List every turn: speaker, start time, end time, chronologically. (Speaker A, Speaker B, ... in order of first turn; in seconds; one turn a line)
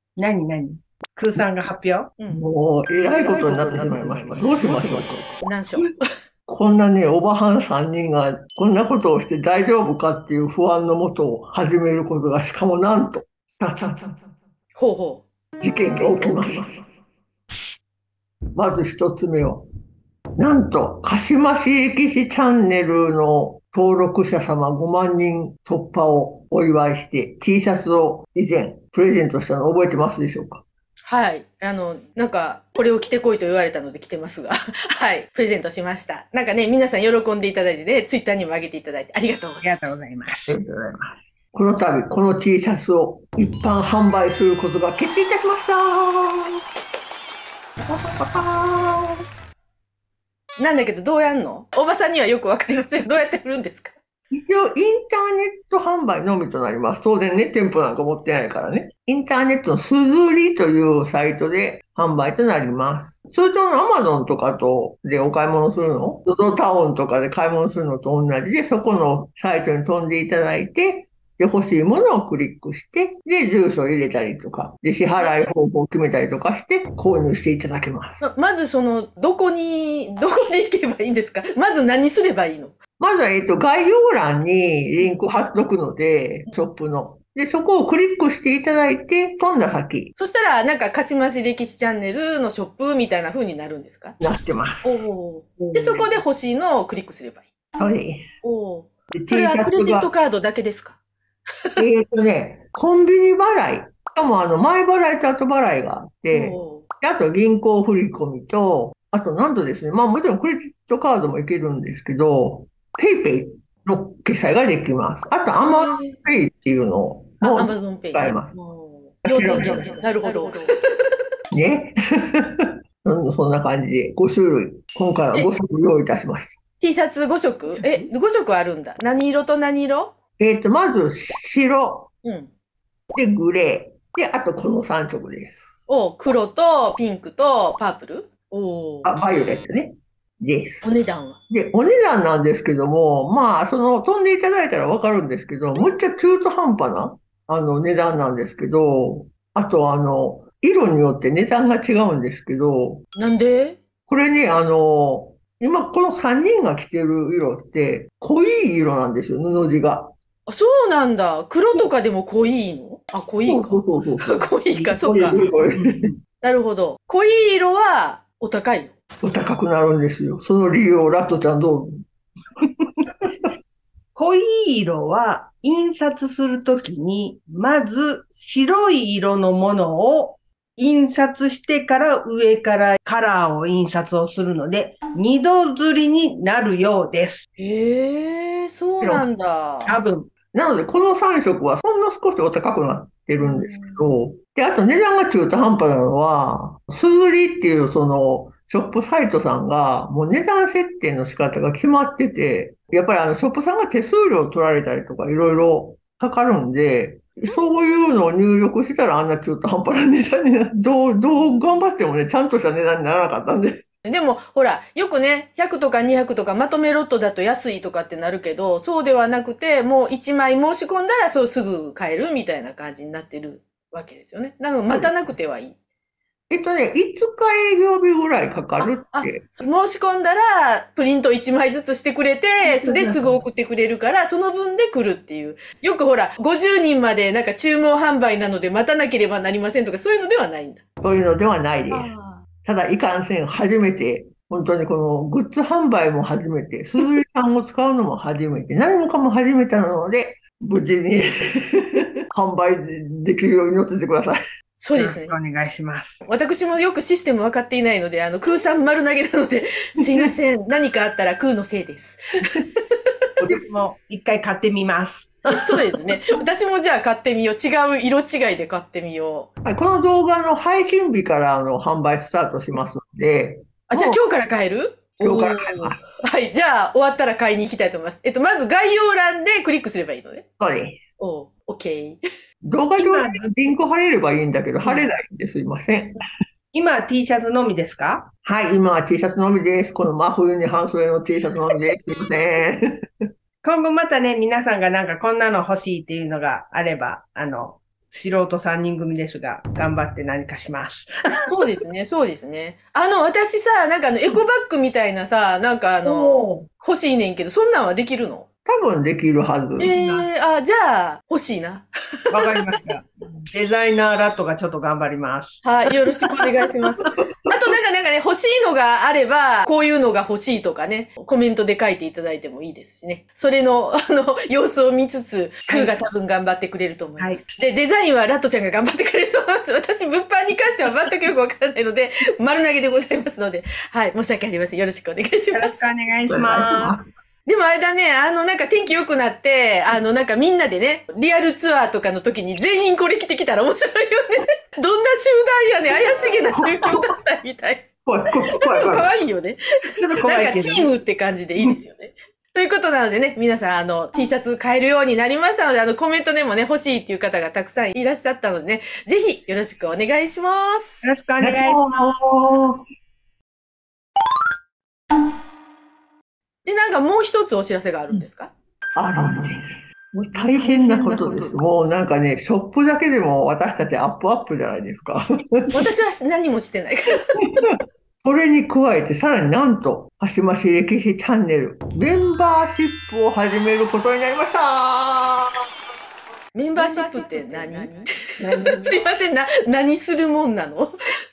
Speaker A: 0.2-2.1
Speaker B: 2.2-2.5
Speaker C: 2.3-5.5
Speaker A: 3.0-5.1
Speaker B: 5.4-5.9
Speaker C: 6.5-14.2
Speaker B: 14.7-15.2
Speaker C: 15.6-16.9
Speaker B: 16.0-16.3
Speaker C: 18.6-19.7
Speaker C: 20.4-30.6
Speaker B: 31.1-40.0
Speaker A: 39.6-40.5
Speaker C: 40.5-46.6
Speaker C: 47.8-49.2
Speaker B: 50.6-54.0
Speaker C: 54.3-78.2
Speaker B: 75.2-75.5
Speaker B: 78.2-82.8
Speaker C: 83.0-90.1
Speaker B: 90.2-94.2
Speaker C: 94.2-94.9
Speaker B: 94.8-97.5
Speaker C: 95.7-96.1
Speaker C: 97.8-98.2
Speaker B: 98.4-101.0
Speaker C: 99.1-100.1
Speaker C: 101.8-118.5
Speaker B: 106.3-106.8
Speaker B: 115.6-116.2
Speaker B: 117.4-120.7
Speaker C: 119.2-120.1
Speaker C: 121.5-126.5
Speaker B: 126.8-130.1
Speaker C: 130.4-132.1
Speaker B: 132.2-132.5
Speaker C: 133.1-135.6
Speaker B: 135.9-139.1
Speaker C: 139.0-140.8
Speaker B: 140.8-141.4
Speaker C: 141.5-153.0
Speaker B: 153.2-153.8
Speaker C: 154.1-160.1
Speaker B: 160.5-165.4
Speaker C: 163.5-166.1
Speaker A: 165.6-166.1
Speaker B: 166.4-168.9
Speaker C: 169.2-172.0
Speaker C: 172.8-173.5
Speaker A: 174.1-187.4
Speaker B: 187.6-190.0
Speaker C: 189.0-189.3
Speaker A: 189.9-190.3
Speaker C: 190.5-213.8
Speaker B: 193.4-194.1
Speaker B: 214.0-225.8
Speaker C: 224.9-225.3
Speaker C: 226.5-229.4
Speaker B: 228.8-240.8
Speaker A: 232.6-233.4
Speaker C: 241.0-242.1
Speaker B: 241.9-242.4
Speaker C: 242.6-251.8
Speaker C: 252.3-254.4
Speaker B: 254.8-255.3
Speaker A: 254.9-256.2
Speaker B: 256.2-263.1
Speaker A: 263.5-265.4
Speaker B: 265.6-269.5
Speaker C: 269.6-274.2
Speaker B: 273.9-280.4
Speaker C: 275.2-276.0
Speaker C: 280.6-281.0
Speaker B: 281.2-282.2
Speaker C: 282.6-286.1
Speaker A: 283.0-283.5
Speaker A: 284.8-285.1
Speaker A: 286.7-288.3
Speaker C: 288.4-293.0
Speaker A: 293.6-301.1
Speaker B: 301.4-308.5
Speaker A: 306.0-306.7
Speaker C: 308.6-309.9
Speaker B: 309.8-312.6
Speaker A: 309.9-310.3
Speaker A: 312.3-315.6
Speaker B: 315.6-335.8
Speaker A: 325.7-325.9
Speaker A: 327.2-327.4
Speaker A: 335.5-336.9
Speaker C: 336.3-337.1
Speaker B: 337.4-347.9
Speaker C: 346.5-347.1
Speaker C: 348.1-349.1
Speaker B: 348.5-349.6
Speaker A: 349.9-350.9
Speaker B: 350.2-361.1
Speaker A: 361.0-361.8
Speaker C: 361.4-362.8
Speaker B: 366.6-368.5
Speaker C: 368.9-375.7
Speaker A: 370.4-371.6
Speaker B: 375.7-377.7
Speaker C: 378.2-385.5
Speaker B: 386.5-390.9
Speaker A: 386.8-389.0